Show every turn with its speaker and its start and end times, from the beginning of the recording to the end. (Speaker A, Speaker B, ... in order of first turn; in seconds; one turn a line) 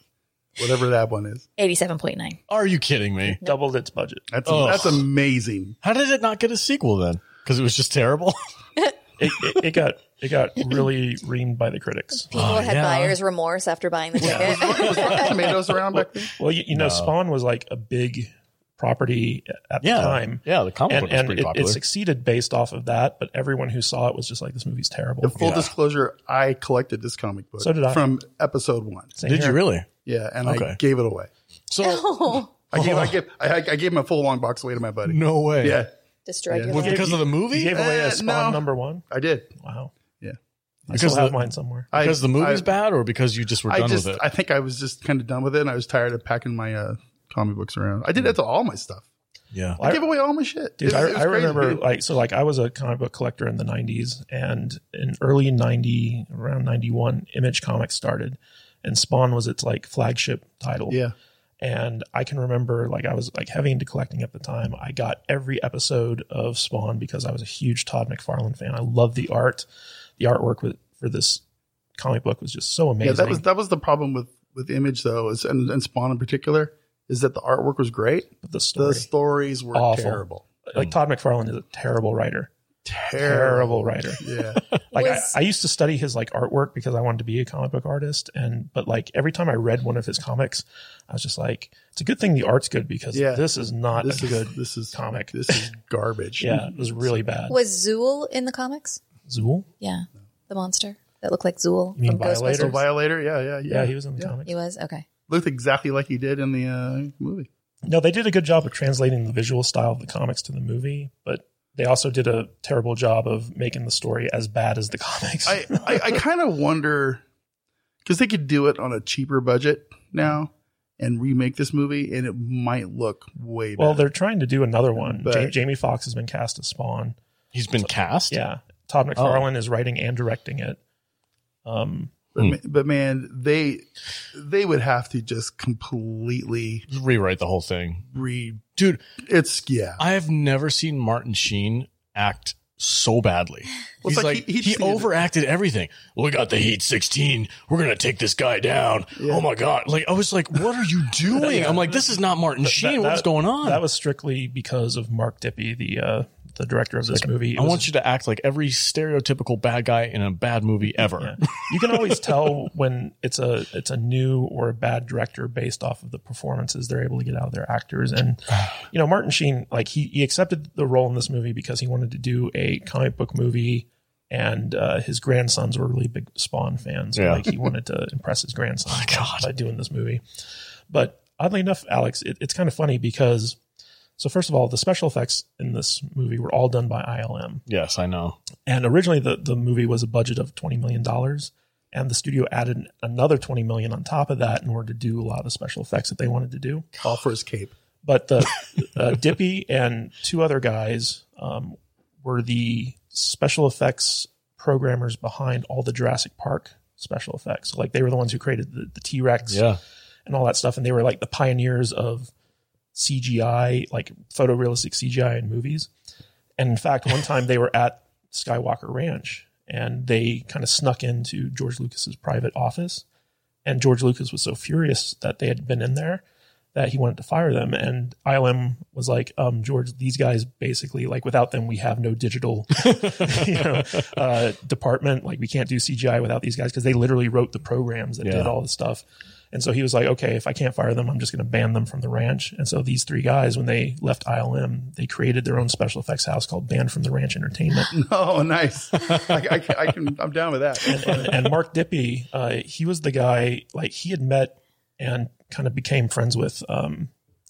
Speaker A: 0.6-1.5
Speaker B: 1.6-2.4
Speaker C: 2.5-3.4
Speaker D: 3.4-4.6
Speaker A: 4.3-5.8
Speaker C: 4.5-5.1
Speaker C: 5.8-8.4
Speaker D: 9.2-12.4
Speaker B: 12.3-15.4
Speaker C: 12.3-13.2
Speaker D: 14.2-14.6
Speaker A: 14.2-16.3
Speaker C: 14.6-15.5
Speaker D: 16.0-25.6
Speaker C: 16.7-17.1
Speaker C: 19.8-21.8
Speaker A: 25.2-29.1
Speaker C: 25.4-25.7
Speaker D: 27.6-28.1
Speaker D: 29.2-29.6
Speaker C: 29.3-29.9
Speaker A: 30.1-31.3
Speaker C: 30.4-30.8
Speaker C: 31.7-33.2
Speaker B: 31.8-32.6
Speaker A: 32.7-35.9
Speaker C: 35.0-35.8
Speaker B: 36.3-37.2
Speaker A: 36.5-36.8
Speaker C: 36.7-37.7
Speaker D: 36.7-39.9
Speaker A: 37.7-39.5
Speaker D: 40.9-41.9
Speaker C: 40.9-41.4
Speaker A: 41.9-42.7
Speaker C: 41.9-44.2
Speaker A: 43.7-49.0
Speaker C: 49.5-49.8
Speaker D: 49.8-50.0
Speaker A: 49.8-51.8
Speaker D: 50.8-61.0
Speaker A: 60.9-61.1
Speaker D: 61.6-69.7
Speaker D: 70.2-71.4
Speaker D: 72.0-73.4
Speaker A: 73.0-80.4
Speaker D: 78.4-79.1
Speaker D: 79.7-82.5
Speaker A: 82.8-84.6
Speaker D: 83.2-84.2
Speaker D: 84.9-95.7
Speaker B: 85.0-85.4
Speaker A: 93.1-93.5
Speaker A: 94.0-97.1
Speaker D: 96.4-97.6
Speaker B: 97.5-99.0
Speaker D: 99.3-99.7
Speaker B: 99.8-102.8
Speaker D: 102.0-102.8
Speaker A: 102.5-104.3
Speaker D: 103.7-104.5
Speaker B: 104.5-105.0
Speaker A: 105.3-107.5
Speaker D: 107.9-116.2
Speaker A: 115.5-117.2
Speaker A: 118.0-124.0
Speaker D: 123.8-127.2
Speaker A: 125.2-125.5
Speaker C: 127.5-128.4
Speaker D: 127.8-130.8
Speaker C: 129.2-129.4
Speaker D: 131.6-132.1
Speaker A: 132.3-136.9
Speaker C: 136.9-138.1
Speaker A: 138.1-138.6
Speaker C: 138.8-139.0
Speaker A: 139.2-140.0
Speaker C: 140.0-153.8
Speaker A: 144.0-145.1
Speaker A: 149.2-149.4
Speaker D: 151.3-152.1
Speaker D: 152.6-157.9
Speaker C: 157.1-161.4
Speaker D: 161.0-180.2
Speaker C: 177.2-177.5
Speaker C: 178.9-179.5
Speaker D: 180.9-183.6
Speaker D: 184.2-187.6
Speaker C: 187.7-188.4
Speaker D: 188.7-196.9
Speaker A: 197.0-197.7
Speaker D: 198.0-209.6
Speaker C: 209.5-209.8
Speaker D: 210.3-212.3
Speaker D: 212.9-215.9
Speaker D: 216.6-223.1
Speaker D: 223.6-226.2
Speaker D: 226.7-247.9
Speaker C: 232.9-233.4
Speaker C: 238.2-238.5
Speaker A: 247.9-251.3
Speaker D: 250.9-257.1